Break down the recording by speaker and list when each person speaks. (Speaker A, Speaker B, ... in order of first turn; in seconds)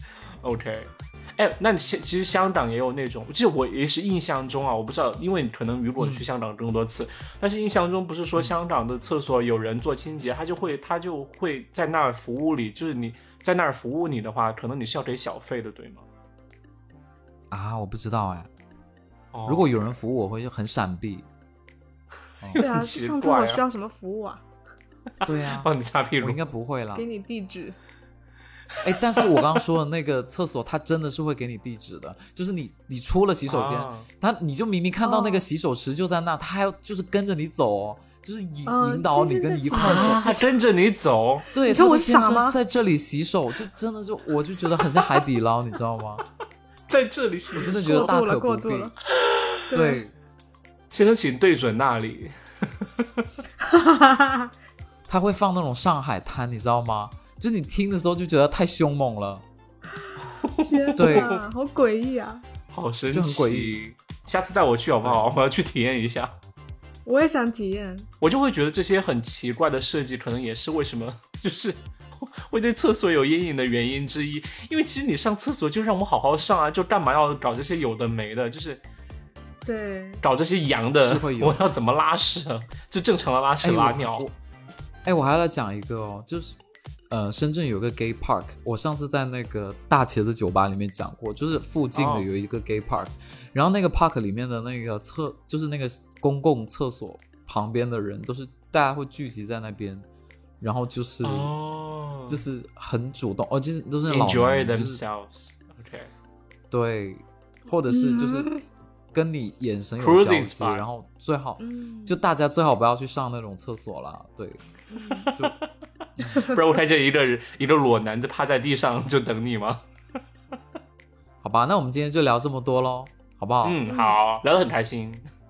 Speaker A: 0.4-16.1, 19.3-19.8, 22.4-23.6, 25.2-26.4, 29.2-29.5, 33.5-34.1, 39.7-41.5, 46.9-48.1, 49.2-49.6, 50.9-53.3, 60.3-61.4, 62.7-66.3, 68.2-78.8, 80.2-84.3, 91.9-92.3, 101.2-102.4, 104.1-106.1, 110.0-110.8, 115.3-115.6, 116.4-119.8, 123.6-125.2
Speaker B: 6.0-6.2, 17.5-18.5, 19.4-21.3, 25.2-25.7, 26.2-27.1, 28.8-40.3, 41.5-46.2, 47.6-48.9, 49.7-50.1, 55.1-59.4, 61.0-61.3, 63.1-63.8, 65.0-65.3, 81.0-81.6, 83.6-84.3, 85.0-86.6, 87.1-100.0, 100.6-101.5, 102.3-105.0, 106.7-108.5, 109.1-114.6, 121.4-123.8
Speaker C: 22.6-24.4, 26.9-27.8, 35.0-35.4, 38.7-40.5, 41.6-42.6, 47.6-48.9, 49.7-50.0, 53.6-54.5, 60.6-62.4, 67.1-68.1, 79.7-80.2, 107.9-108.6, 111.6-112.2, 114.9-115.3, 116.3-116.6, 123.9-124.2